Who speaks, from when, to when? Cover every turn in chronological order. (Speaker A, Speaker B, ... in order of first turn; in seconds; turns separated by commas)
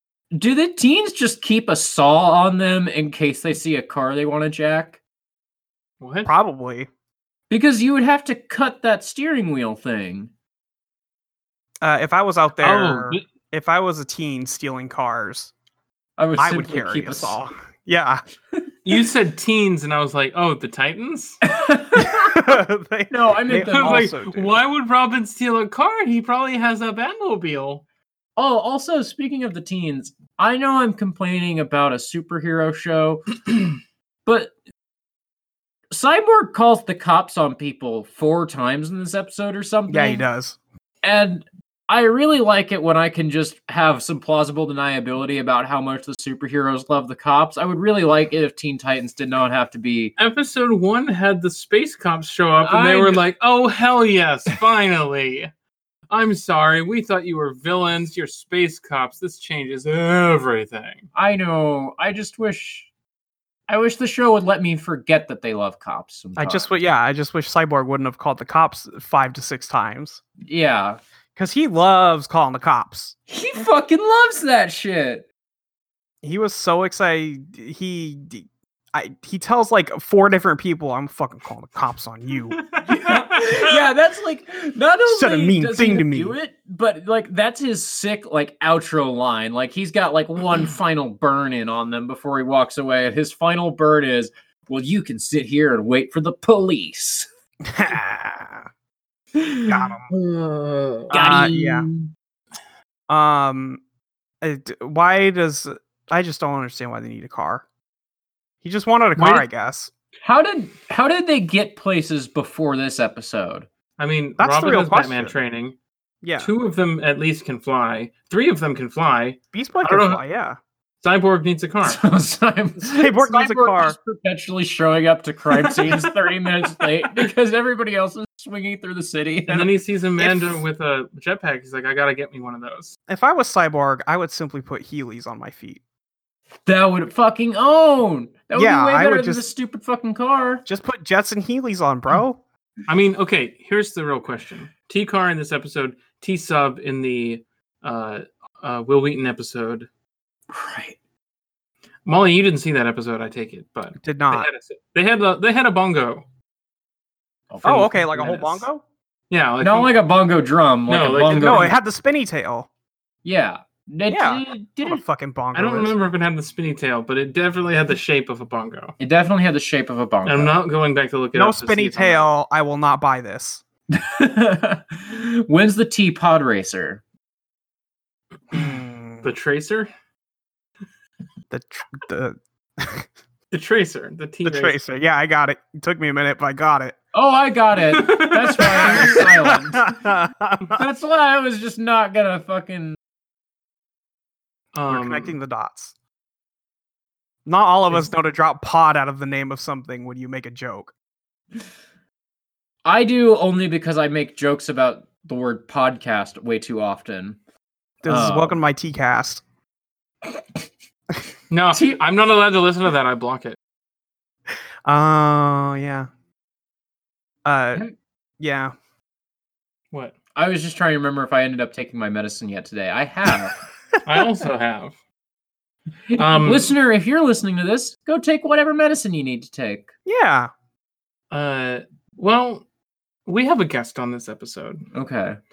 Speaker A: 0.3-5.0, Speaker B: 6.0-6.3, Speaker C: 6.2-6.9, Speaker A: 7.5-10.3, Speaker C: 11.8-15.5, Speaker B: 12.6-13.2, Speaker A: 16.2-17.4, Speaker C: 16.4-18.2, Speaker B: 18.9-21.4, Speaker A: 21.4-24.1, Speaker C: 22.0-24.6, Speaker B: 23.7-27.8, Speaker A: 28.4-33.4, Speaker A: 34.3-34.5, Speaker A: 35.9-40.2, Speaker C: 39.9-40.6, Speaker A: 41.0-50.1, Speaker B: 50.2-55.5, Speaker A: 52.6-53.2, Speaker B: 56.1-61.1, Speaker A: 61.1-62.9, Speaker A: 63.7-66.7, Speaker C: 66.4-70.2, Speaker A: 70.4-71.0, Speaker C: 71.3-73.2, Speaker A: 73.3-75.3, Speaker C: 76.2-82.6, Speaker B: 82.7-83.5, Speaker A: 82.9-97.3, Speaker C: 85.1-86.4, Speaker C: 97.6-98.7, Speaker A: 99.3-99.7, Speaker C: 99.7-100.1, Speaker A: 100.3-102.1, Speaker C: 101.1-101.9, Speaker C: 103.1-103.8, Speaker C: 104.4-107.6, Speaker C: 108.6-109.9, Speaker B: 109.2-109.4, Speaker A: 110.2-113.7, Speaker B: 114.0-115.8, Speaker C: 114.4-115.3, Speaker C: 116.2-116.5, Speaker B: 116.4-120.2, Speaker C: 119.5-120.6, Speaker B: 121.0-122.0, Speaker A: 121.8-129.7, Speaker C: 122.8-124.0, Speaker B: 125.7-126.1, Speaker B: 129.5-133.0, Speaker C: 130.2-130.6, Speaker C: 133.1-135.8, Speaker A: 136.7-140.6, Speaker C: 138.6-139.4, Speaker C: 140.7-142.4, Speaker B: 142.9-149.9, Speaker A: 150.5-151.0, Speaker B: 152.1-156.2, Speaker C: 154.0-154.5, Speaker A: 157.5-158.1, Speaker C: 157.6-158.8, Speaker B: 158.1-158.7, Speaker B: 159.3-159.9, Speaker A: 159.6-161.8, Speaker B: 160.9-161.7, Speaker C: 161.3-162.7, Speaker A: 163.2-165.0, Speaker C: 164.1-165.9, Speaker B: 165.5-168.9, Speaker A: 169.0-170.5, Speaker B: 170.2-172.2, Speaker C: 171.3-173.6, Speaker A: 173.9-177.0, Speaker C: 178.5-179.3, Speaker B: 179.2-179.9, Speaker C: 181.5-183.1, Speaker B: 183.5-184.8, Speaker C: 184.4-187.0, Speaker A: 187.1-190.0, Speaker B: 187.9-189.2, Speaker C: 188.9-190.8, Speaker A: 190.8-193.0, Speaker B: 194.7-195.3, Speaker C: 194.9-195.9, Speaker C: 197.5-200.9, Speaker A: 202.8-207.4, Speaker C: 208.0-209.4, Speaker A: 208.1-208.6, Speaker A: 210.3-210.6, Speaker B: 211.5-213.6, Speaker C: 214.9-216.1, Speaker C: 217.4-217.9, Speaker C: 218.4-218.7, Speaker A: 220.3-223.6, Speaker B: 224.1-225.0, Speaker A: 226.1-229.9, Speaker B: 226.2-226.7, Speaker C: 230.1-230.5, Speaker B: 231.3-232.7, Speaker B: 233.3-234.9, Speaker A: 234.9-235.4